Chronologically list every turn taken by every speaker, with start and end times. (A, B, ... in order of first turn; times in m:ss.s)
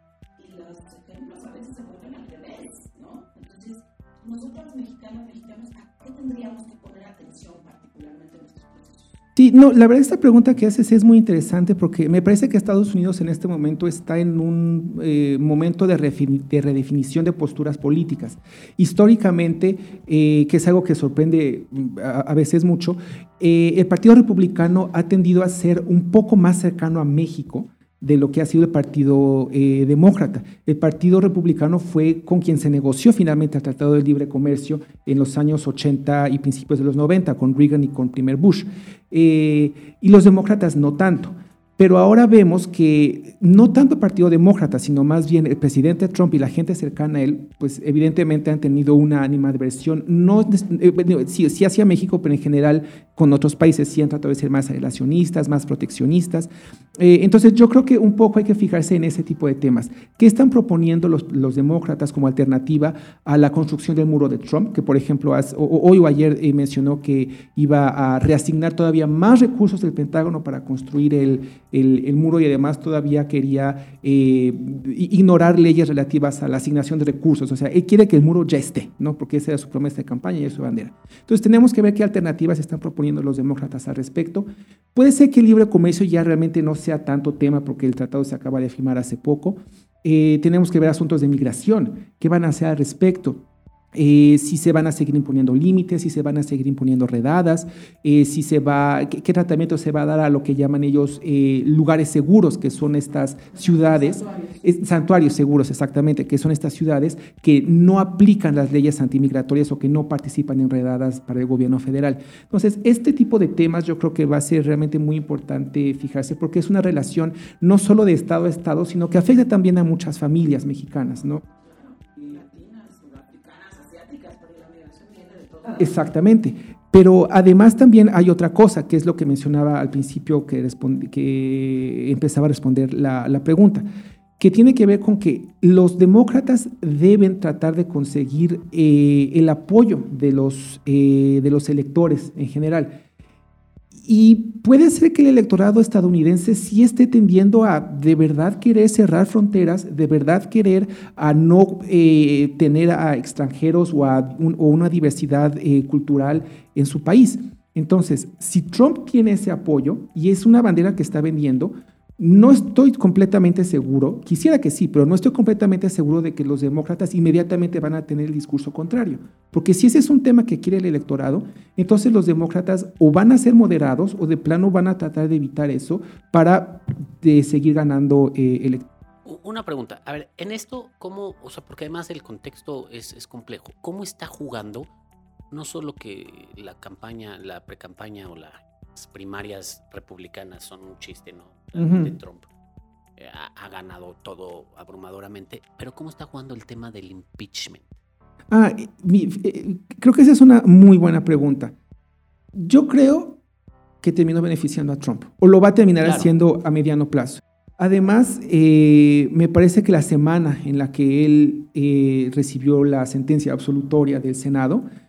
0:00.4-0:09.2 A
0:09.4-2:01.4 B
1:43.6-1:44.6 A
2:01.5-2:06.0 A
2:05.8-2:13.9 B
2:14.4-2:23.0 B
2:24.0-2:58.9 B
2:59.2-3:04.9 C
3:05.5-3:12.5 C
3:11.8-3:12.1 B
3:13.2-3:18.0 C
3:18.5-3:21.7 B
3:22.5-3:23.4 B
3:24.0-3:34.8 B
3:26.0-3:26.3 C